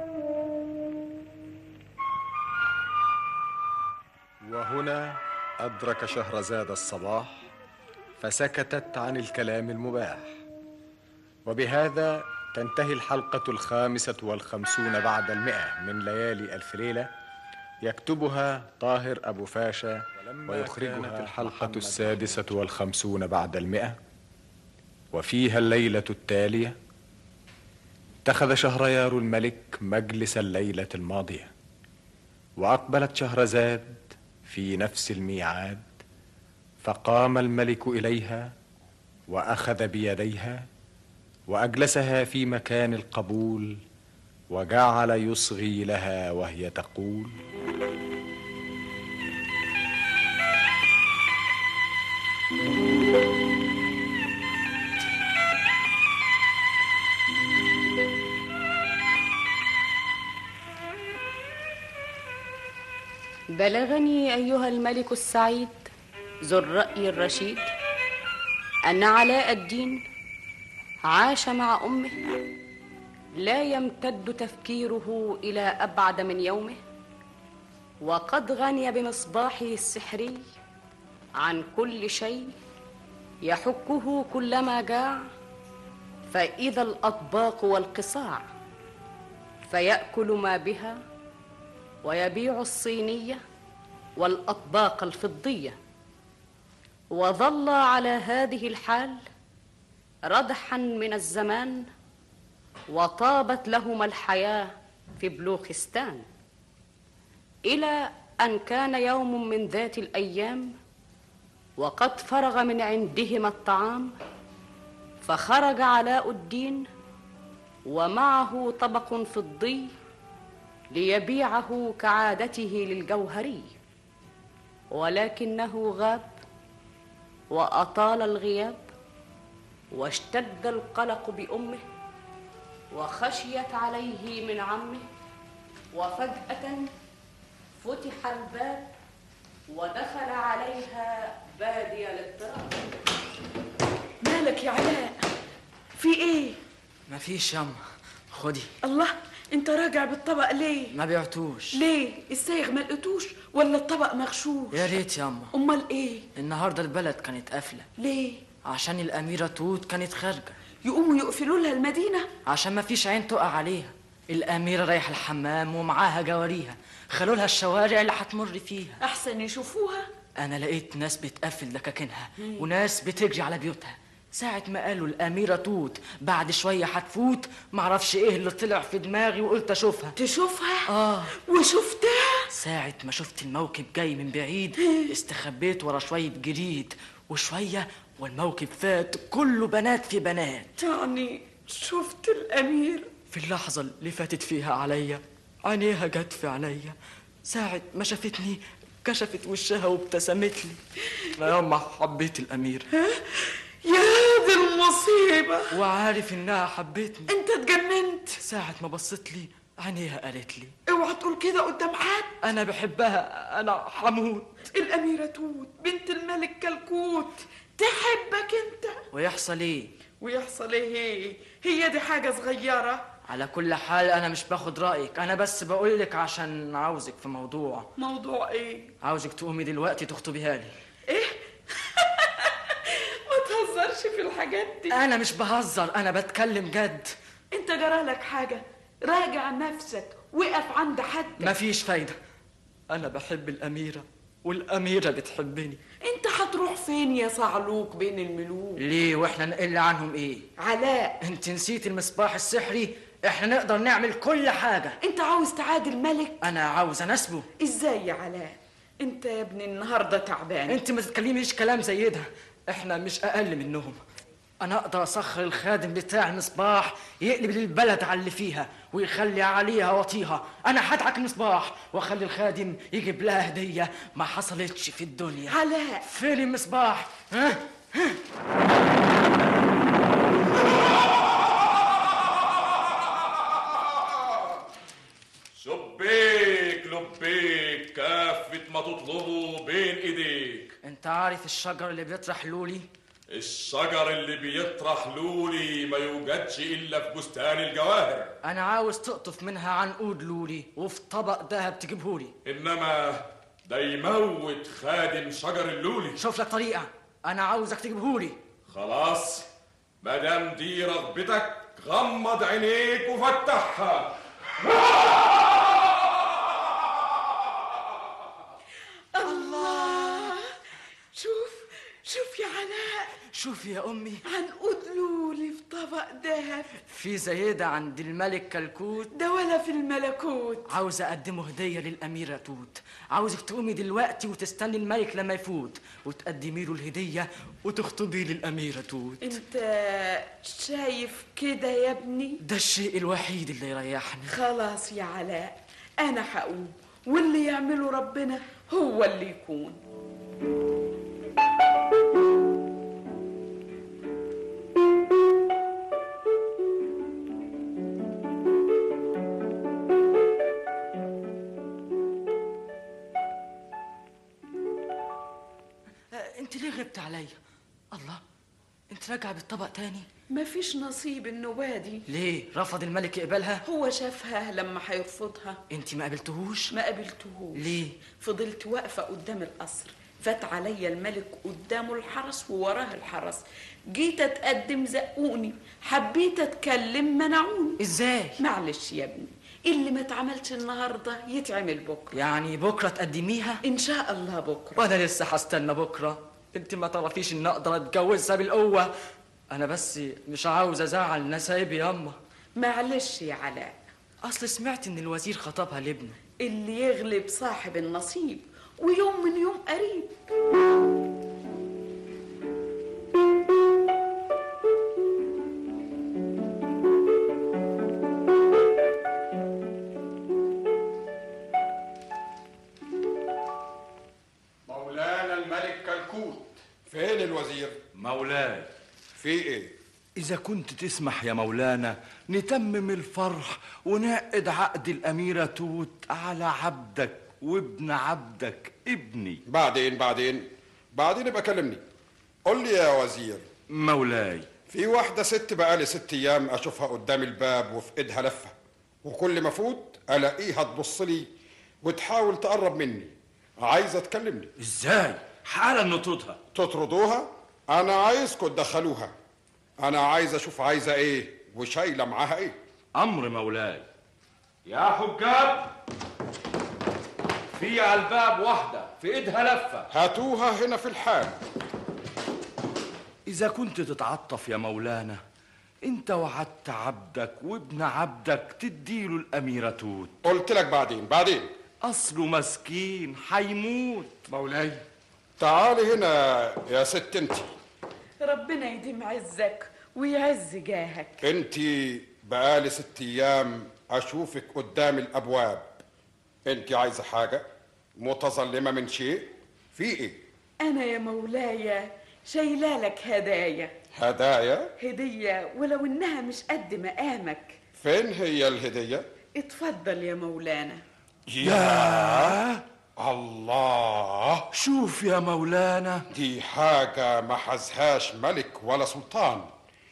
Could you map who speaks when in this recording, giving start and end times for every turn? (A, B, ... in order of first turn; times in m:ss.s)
0:04.4-0:07.5 A
0:08.2-0:10.4 A
0:11.5-0:17.1 A
0:17.8-0:24.0 A
0:25.1-0:26.8 A
0:28.2-0:31.5 A
0:32.6-0:35.9 A
0:36.8-0:38.5 A
0:39.3-0:40.7 A
0:41.5-0:43.8 A
0:44.5-0:47.3 A
1:03.6-1:05.9 B
1:06.5-1:07.7 B
1:08.9-1:10.0 B
1:11.0-1:12.1 B
1:13.4-1:16.8 B
1:18.0-1:20.4 B
1:21.4-1:22.5 B
1:23.4-1:25.3 B
1:26.3-1:28.4 B
1:29.7-1:31.0 B
1:32.0-1:33.4 B
1:34.2-1:35.8 B
1:37.1-1:39.2 B
1:40.3-1:41.9 B
1:42.9-1:46.2 B
1:47.7-1:50.7 B
1:51.8-1:54.1 B
1:55.2-1:56.9 B
1:57.9-1:59.9 B
2:00.9-2:03.8 B
2:04.9-2:06.4 B
2:07.5-2:08.8 B
2:09.9-2:11.8 B
2:12.9-2:15.0 B
2:15.9-2:16.9 B
2:17.8-2:18.9 B
2:19.7-2:22.7 B
2:24.2-2:25.2 C
2:26.0-2:26.6 C
2:27.1-2:27.8 D
2:28.3-2:28.7 D
2:28.8-2:30.9 C
2:30.9-2:31.8 D
2:31.7-2:34.9 C
2:34.7-2:35.5 D
2:35.5-2:36.3 C
2:36.4-2:37.9 D
2:38.0-2:38.5 C
2:38.6-2:40.6 D
2:40.8-2:42.3 C
2:42.5-2:49.0 D
2:49.0-2:50.1 C
2:50.4-3:00.1 D
2:52.4-2:52.7 C
3:00.2-3:00.9 C
3:00.9-3:01.3 D
3:01.4-3:02.5 C
3:02.5-3:10.7 D
3:10.8-3:13.1 C
3:13.3-3:17.0 D
3:17.5-3:20.8 D
3:21.4-3:22.9 D
3:22.9-3:25.8 C
3:25.7-3:27.3 D
3:27.3-3:28.4 C
3:28.4-3:30.7 D
3:30.9-3:32.3 C
3:32.4-3:34.5 D
3:34.7-3:39.0 C
3:39.1-3:39.9 D
3:40.2-3:43.1 C
3:43.3-3:47.9 D
3:48.0-3:48.9 C
3:49.0-3:50.7 D
3:51.1-3:55.0 C
3:54.9-3:57.1 D
3:57.5-4:01.5 C
4:01.4-4:02.2 D
4:02.9-4:05.8 D
4:06.0-4:08.8 C
4:08.8-4:10.5 D
4:10.6-4:11.2 C
4:11.2-4:15.0 D
4:15.0-4:16.4 C
4:16.4-4:17.5 D
4:17.6-4:20.8 C
4:20.7-4:24.0 D
4:24.6-4:38.2 D
4:35.5-4:36.0 C
4:45.6-4:50.7 E
4:50.8-4:52.9 D
4:53.3-4:58.3 E
4:58.4-5:02.3 D
5:02.4-5:06.2 E
5:06.2-5:08.4 D
5:08.7-5:09.5 E
5:10.0-5:14.1 E
5:19.1-5:20.5 C
5:19.2-5:20.3 D
5:21.2-5:23.1 C
5:23.3-5:24.2 D
5:24.2-5:26.8 C
5:26.9-5:29.1 D
5:29.1-5:30.7 C
5:30.7-5:39.4 D
5:39.2-5:42.4 C
5:42.4-5:44.3 D
5:44.3-5:49.8 C
6:06.1-6:07.4 D
6:07.9-6:08.2 D
6:08.9-6:10.1 D
6:10.3-6:12.0 C
6:12.1-6:13.6 D
6:13.6-6:15.6 C
6:15.7-6:16.7 D
6:16.7-6:27.8 C
6:17.6-6:17.9 D
6:27.8-6:28.4 D
6:28.4-6:32.2 C
6:32.1-6:33.6 D
6:33.6-6:34.8 C
6:34.8-6:38.9 D
6:39.5-6:42.2 D
6:42.6-6:43.8 C
6:44.2-6:46.2 D
6:46.4-6:50.2 C
7:04.9-7:05.8 A
7:06.9-7:07.8 F
7:08.0-7:08.7 G
7:09.2-7:09.7 F
7:10.2-7:19.4 G
7:19.5-7:21.8 F
7:22.5-7:23.5 F
7:23.7-7:24.5 G
7:24.7-7:28.5 F
7:29.0-7:31.3 F
7:31.8-7:34.5 F
7:34.6-7:36.4 G
7:36.6-7:39.1 F
7:39.8-7:42.6 F
7:43.0-7:43.8 G
7:44.7-7:45.3 G
7:47.6-7:49.8 G
7:49.9-7:51.4 F
7:53.3-7:55.2 G
7:55.8-8:00.1 G
8:00.2-8:01.5 F
8:01.8-8:04.3 G
8:05.4-8:07.5 F
8:08.2-8:11.2 C
8:11.2-8:15.8 F
8:16.5-8:17.4 F
8:18.0-8:20.2 F
8:20.6-8:23.7 C
8:23.9-8:24.7 F
8:24.8-8:27.6 C
8:27.8-8:29.0 F
8:29.4-8:30.8 C
8:31.3-8:32.4 F
8:31.4-8:32.6 G
8:33.0-8:34.4 F
8:34.5-8:36.0 G
8:36.1-8:39.5 F